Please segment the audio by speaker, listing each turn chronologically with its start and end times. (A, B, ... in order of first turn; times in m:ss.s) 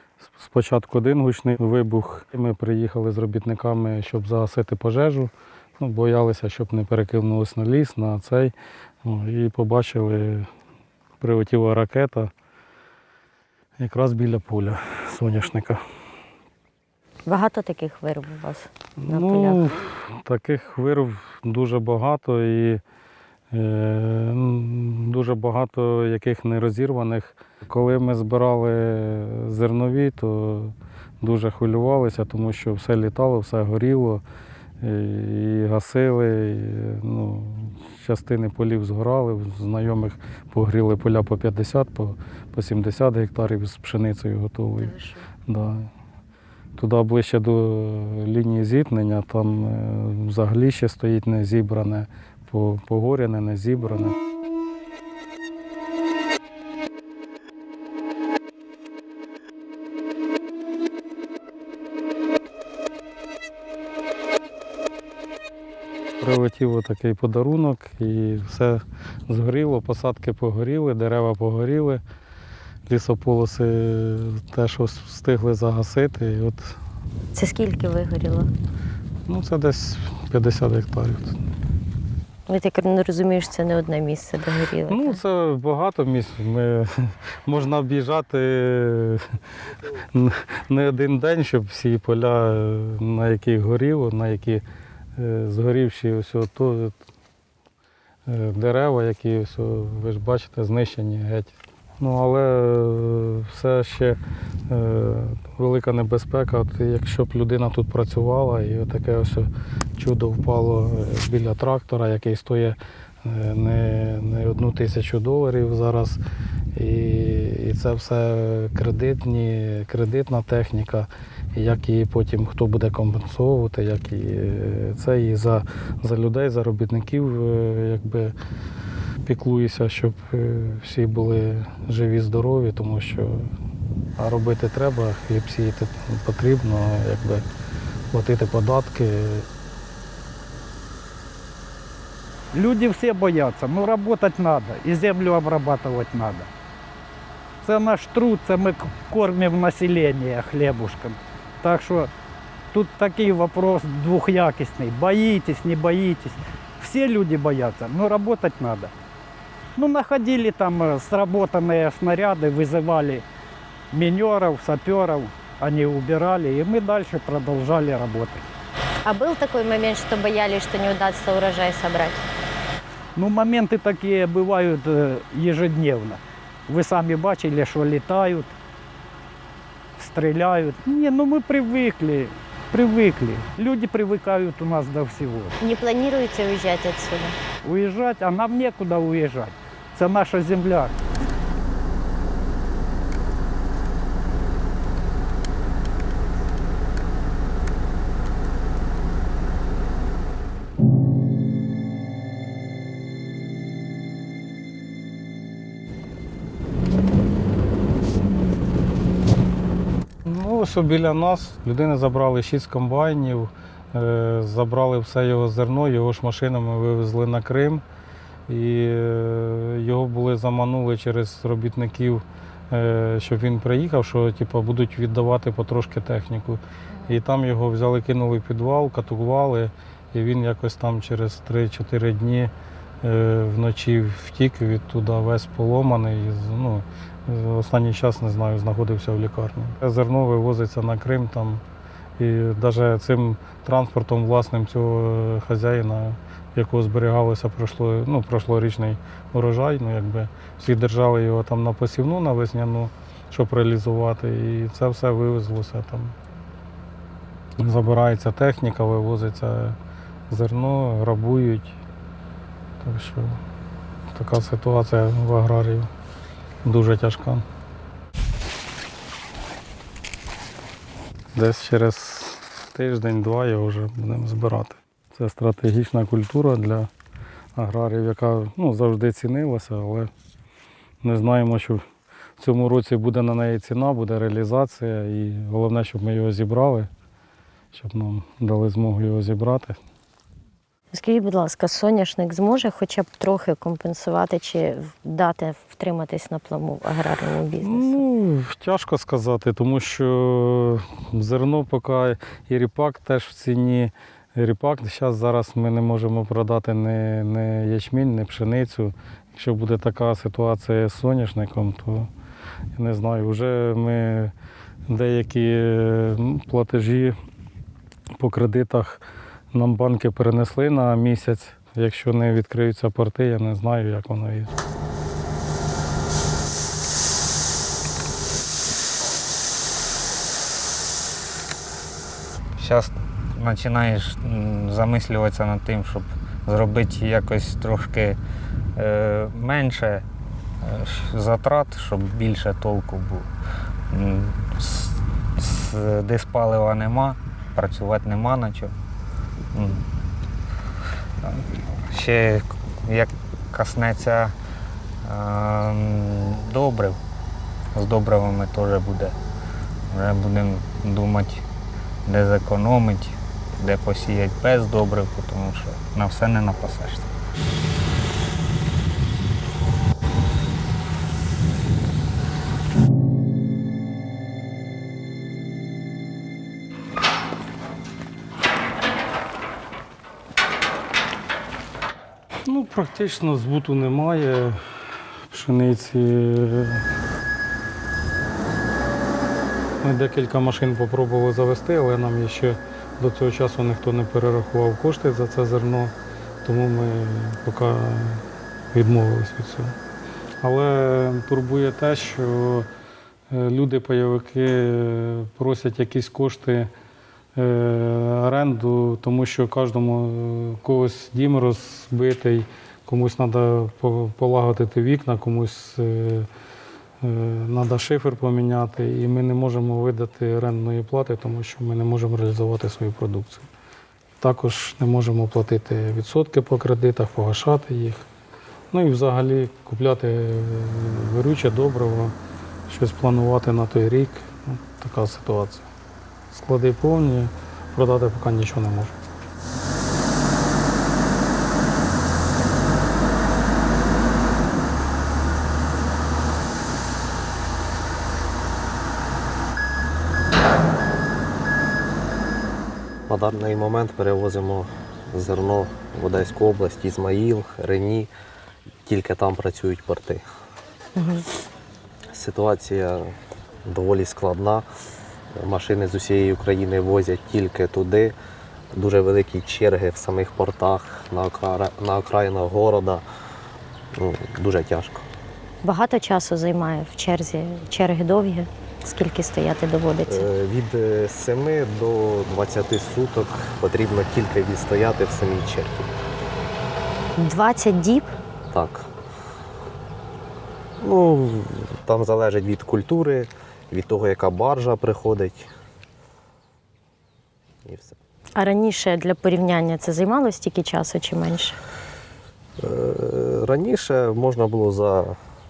0:00.2-0:08.5 A
0:09.0-0:10.5 A
0:11.2-0:12.3 A
0:13.8-0:15.8 A
0:17.3-0:19.7 B
0:19.0-0:22.8 A
0:23.5-0:34.2 A
0:34.8-0:44.9 A
0:44.8-0:45.2 B
0:45.5-0:45.9 A
0:46.8-0:54.2 A
1:06.2-1:12.0 A
1:12.9-1:16.8 A
1:17.3-1:18.5 B
1:19.3-1:21.4 A
1:22.5-1:25.2 B
1:24.9-1:29.4 A
1:30.1-1:34.6 A
1:35.2-1:37.0 A
1:38.3-1:44.2 A
1:44.7-1:56.2 A
1:56.8-2:08.3 A
2:09.3-2:13.5 A
2:14.2-2:17.5 A
2:18.1-2:19.5 A
2:22.5-2:26.5 C
2:27.6-2:32.1 C
2:32.7-2:38.9 C
2:39.8-2:43.2 C
2:43.9-2:48.4 C
2:49.0-2:52.2 B
2:53.2-2:58.5 C
3:00.0-3:05.6 C
3:05.6-3:07.4 B
3:07.6-3:11.0 C
3:30.2-3:37.8 A
3:38.5-4:01.6 A
4:02.2-4:16.2 A
4:17.6-4:19.8 A
4:20.3-4:21.7 A
4:22.8-4:23.4 A
4:24.1-4:25.9 A
4:26.6-4:27.4 A
4:31.3-4:36.9 A
4:37.6-4:40.1 A
4:41.0-4:41.8 A
4:42.4-4:46.9 A
4:47.7-4:49.8 A
4:50.9-4:58.0 B
4:57.6-5:12.1 A
5:12.8-5:14.3 A
5:14.9-5:17.2 A
5:18.2-5:24.5 A
5:32.6-5:38.2 D
5:38.8-5:40.0 D
5:40.6-5:43.3 D
5:43.9-5:48.7 D
5:49.5-5:49.8 D
5:51.2-5:54.3 D
5:55.0-5:57.0 D
5:57.8-5:59.1 D
5:59.9-6:01.4 D
6:02.1-6:07.1 D
6:22.4-6:24.6 A
6:25.3-6:26.8 A
6:29.8-6:39.8 A
6:40.4-6:42.7 A
6:43.3-6:46.7 A
6:47.4-6:56.3 A
6:57.0-7:03.5 A
7:04.2-7:08.1 A
7:08.7-7:12.2 A
7:12.7-7:15.7 A
7:16.3-7:19.0 A
7:33.1-7:38.1 E
7:38.8-7:40.2 E
7:41.0-7:41.3 B
7:42.1-7:44.7 E
7:45.3-7:48.1 E
7:48.7-7:53.0 E
7:54.0-7:55.1 E
7:55.6-8:00.3 B
8:00.1-8:05.9 E
8:07.2-8:08.1 B
8:08.5-8:08.9 E
8:10.8-8:15.5 E
8:17.7-8:18.0 E
8:18.4-8:21.6 B
8:22.6-8:25.2 E